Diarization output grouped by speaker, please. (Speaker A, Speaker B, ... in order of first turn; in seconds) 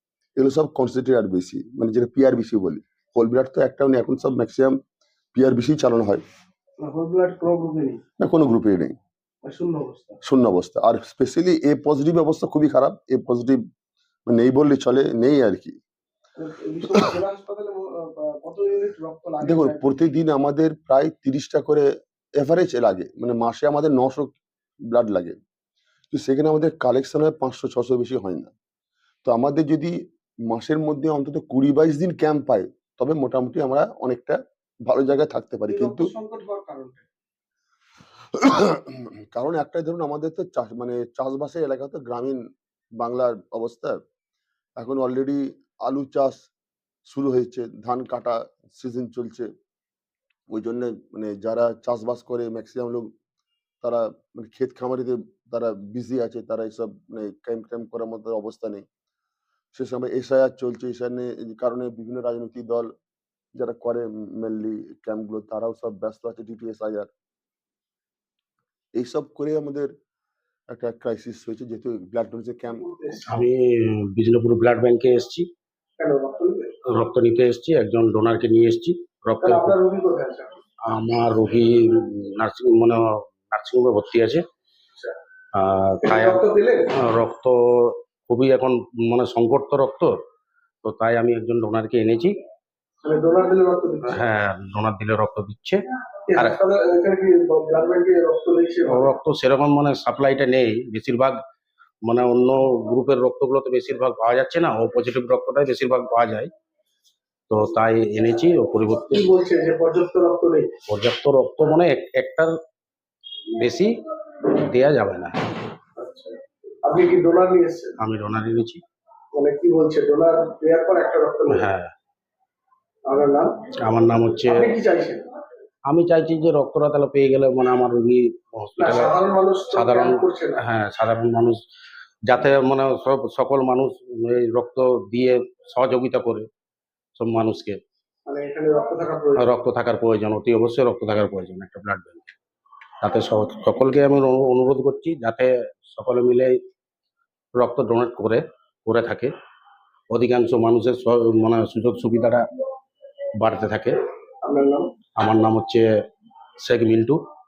Speaker A: 0.4-4.8, 5.3-6.2, 8.2-9.0, 10.2-13.6, 14.3-15.8, 19.4-21.9, 22.4-24.4, 24.9-25.4, 26.1-28.5, 29.2-30.0, 30.5-36.1, 38.3-42.4, 43.0-44.0, 44.8-46.5, 47.1-49.5, 50.5-53.1, 53.8-58.9, 59.7-62.9, 63.5-67.1, 69.0-69.9, 70.7-72.9
Speaker B: 6.8-8.0, 9.4-10.2, 16.4-19.9, 35.7-37.1, 72.8-73.4, 76.0-76.7, 79.4-80.6, 86.0-86.9, 93.0-94.2, 96.3-99.2, 109.1-110.7, 116.0-117.9, 119.3-121.7, 123.1-123.5, 124.5-125.3, 128.8-130.6, 138.3-139.5, 154.4-154.9
Speaker C: 73.3-75.5, 76.9-79.8, 80.9-84.4, 85.5-86.4, 87.0-90.1, 90.8-92.3, 94.1-95.8, 98.9-101.4, 102.1-106.5, 107.5-109.3, 110.9-112.5, 113.6-113.9, 114.4-115.5, 118.0-118.8, 121.5-121.9, 123.9-124.8, 125.9-129.2, 129.7-131.6, 132.3-136.5, 137.2-137.8, 139.4-142.3, 143.0-146.5, 147.6-149.3, 150.1-152.4, 153.4-154.0, 155.2-155.8, 156.6-157.2